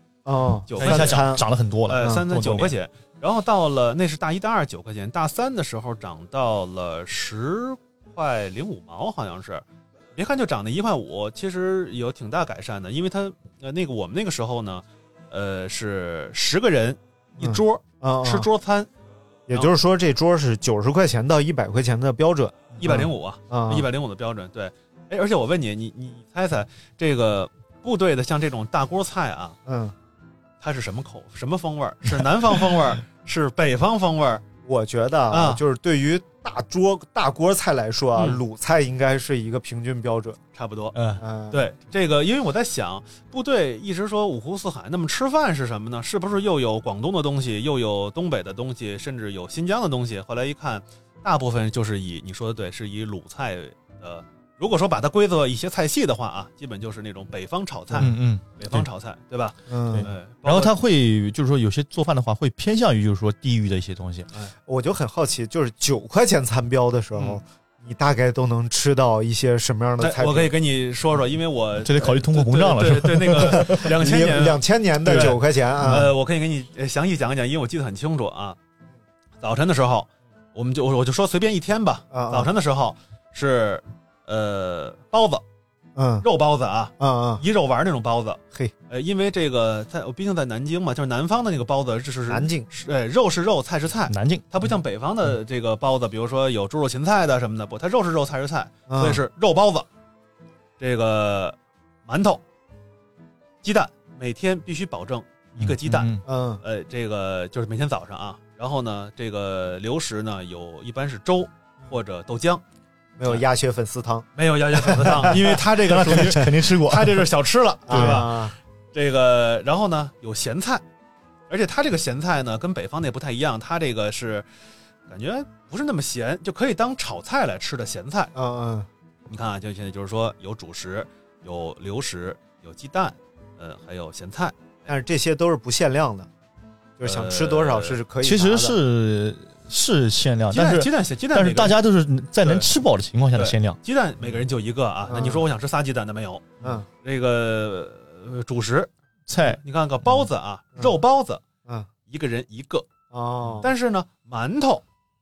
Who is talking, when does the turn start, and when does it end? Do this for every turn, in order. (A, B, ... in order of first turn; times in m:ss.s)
0:00.2-0:01.4 A
0:00.7-0:01.3 B
0:00.8-0:02.7 C
0:01.9-0:18.9 B
0:02.0-0:02.2 A
0:17.4-0:18.5 A
0:19.5-0:23.9 A
0:22.8-0:29.6 B
0:29.6-0:30.0 A
0:30.6-0:34.4 B
0:34.6-0:40.4 A
0:35.3-0:35.6 B
0:38.2-0:38.4 B
0:40.5-0:41.0 B
0:40.9-0:41.2 C
0:41.2-0:41.6 A
0:41.5-1:00.7 B
0:58.0-0:58.9 C
0:59.7-1:00.1 A
0:59.9-1:04.3 C
1:04.7-1:10.5 A
1:10.0-1:18.6 B
1:11.8-1:13.9 C
1:13.4-1:16.1 A
1:15.8-1:16.1 C
1:19.4-1:25.4 B
1:22.1-1:22.5 A
1:26.0-1:26.3 A
1:26.2-1:39.9 B
1:27.0-1:27.4 A
1:32.3-1:32.7 A
1:34.1-1:34.5 C
1:38.9-1:39.2 A
1:40.8-1:42.4 B
1:43.6-1:52.6 B
1:45.6-1:46.2 C
1:46.3-1:46.6 A
1:53.2-1:55.6 A
1:54.4-1:58.4 B
1:55.2-1:57.3 C
1:56.1-1:56.5 A
1:57.9-1:58.6 A
1:57.9-1:58.3 C
1:58.9-2:00.8 B
2:01.5-2:04.5 B
2:05.1-2:08.3 B
2:08.4-2:08.9 A
2:09.3-2:14.9 B
2:14.9-2:16.3 A
2:17.0-2:18.8 A
2:17.0-2:18.0 B
2:18.2-2:23.8 C
2:20.5-2:21.8 B
2:22.4-2:22.7 B
2:23.4-2:28.9 B
2:25.1-2:25.5 A
2:26.6-2:26.9 A
2:29.3-2:30.2 C
2:29.4-2:31.4 B
2:32.1-2:32.9 B
2:33.1-2:33.7 A
2:33.6-2:34.8 B